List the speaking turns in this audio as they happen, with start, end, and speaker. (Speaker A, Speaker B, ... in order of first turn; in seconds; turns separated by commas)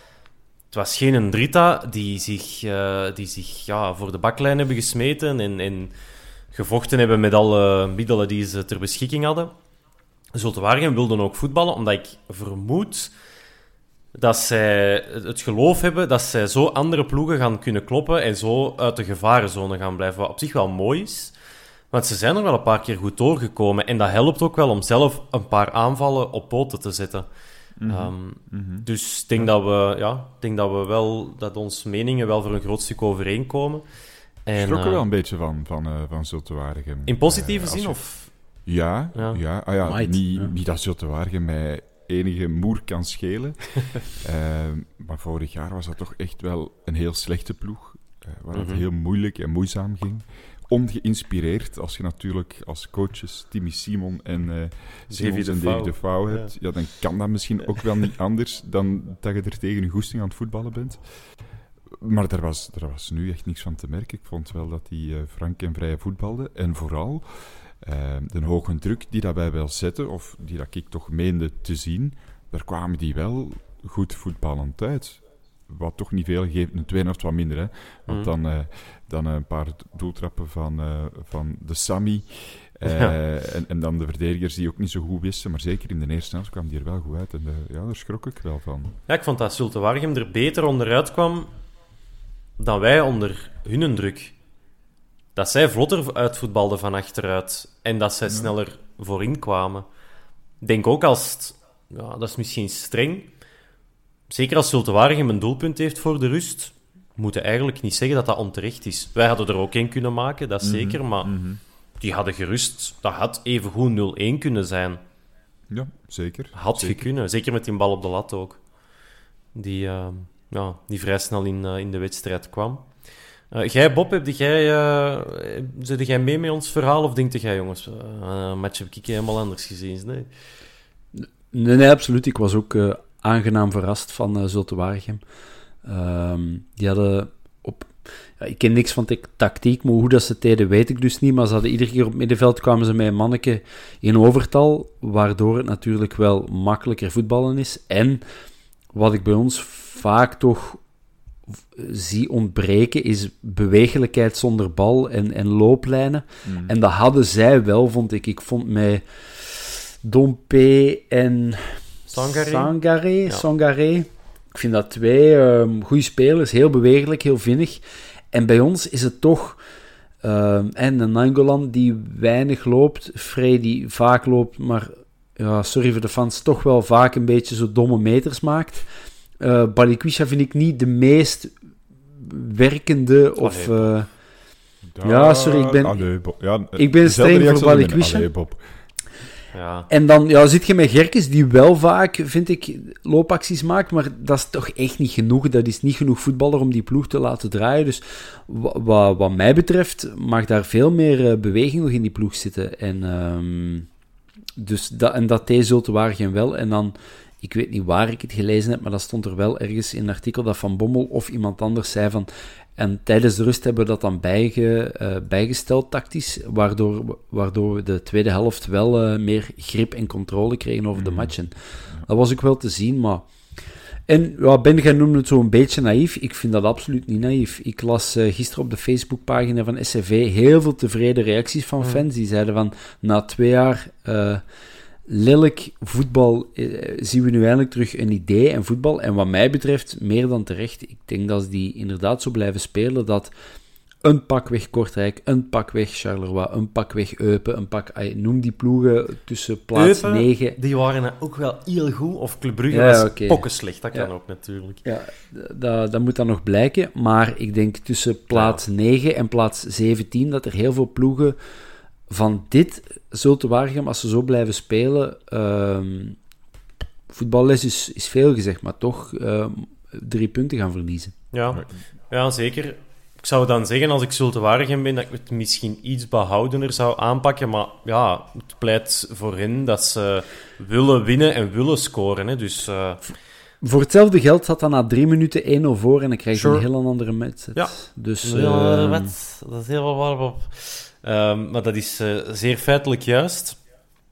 Speaker A: 0.7-5.9, Speaker A: 6.5-9.5, Speaker A: 10.3-13.1, Speaker A: 14.1-21.3, Speaker A: 21.9-27.3, Speaker B: 27.8-28.9, Speaker A: 27.9-33.8, Speaker A: 34.4-35.0, Speaker B: 34.5-38.0, Speaker A: 37.1-38.3, Speaker B: 38.6-61.0, Speaker A: 39.1-39.4, Speaker C: 39.8-40.5, Speaker A: 48.5-48.8, Speaker A: 55.1-56.5, Speaker B: 61.9-89.0, Speaker A: 82.8-83.1, Speaker A: 89.1-91.5, Speaker A: 92.6-94.3, Speaker A: 95.3-99.8, Speaker B: 98.2-98.5, Speaker A: 100.6-103.3, Speaker A: 104.3-111.3, Speaker B: 110.6-111.6, Speaker A: 112.0-115.0, Speaker B: 115.7-117.0, Speaker A: 116.5-118.6, Speaker A: 119.5-122.9, Speaker A: 123.5-130.3, Speaker C: 131.1-135.2, Speaker C: 135.8-148.2, Speaker C: 148.9-150.8, Speaker C: 151.7-169.6, Speaker B: 156.4-156.7, Speaker A: 162.1-162.7, Speaker C: 170.2-178.8, Speaker C: 179.4-181.5, Speaker C: 182.2-184.1, Speaker A: 183.4-184.0, Speaker B: 184.9-188.6, Speaker C: 185.0-186.1, Speaker C: 186.7-188.3, Speaker A: 189.5-189.9, Speaker C: 189.9-203.9, Speaker C: 204.6-223.2, Speaker B: 220.9-221.3, Speaker C: 224.1-234.4, Speaker C: 235.1-243.3, Speaker C: 244.0-250.6, Speaker A: 249.7-254.8, Speaker C: 252.7-254.1, Speaker C: 254.8-261.4, Speaker A: 258.3-258.6, Speaker C: 262.1-266.2, Speaker C: 267.1-271.1, Speaker A: 271.3-283.0, Speaker C: 283.6-289.1, Speaker A: 286.3-286.6, Speaker A: 287.5-293.6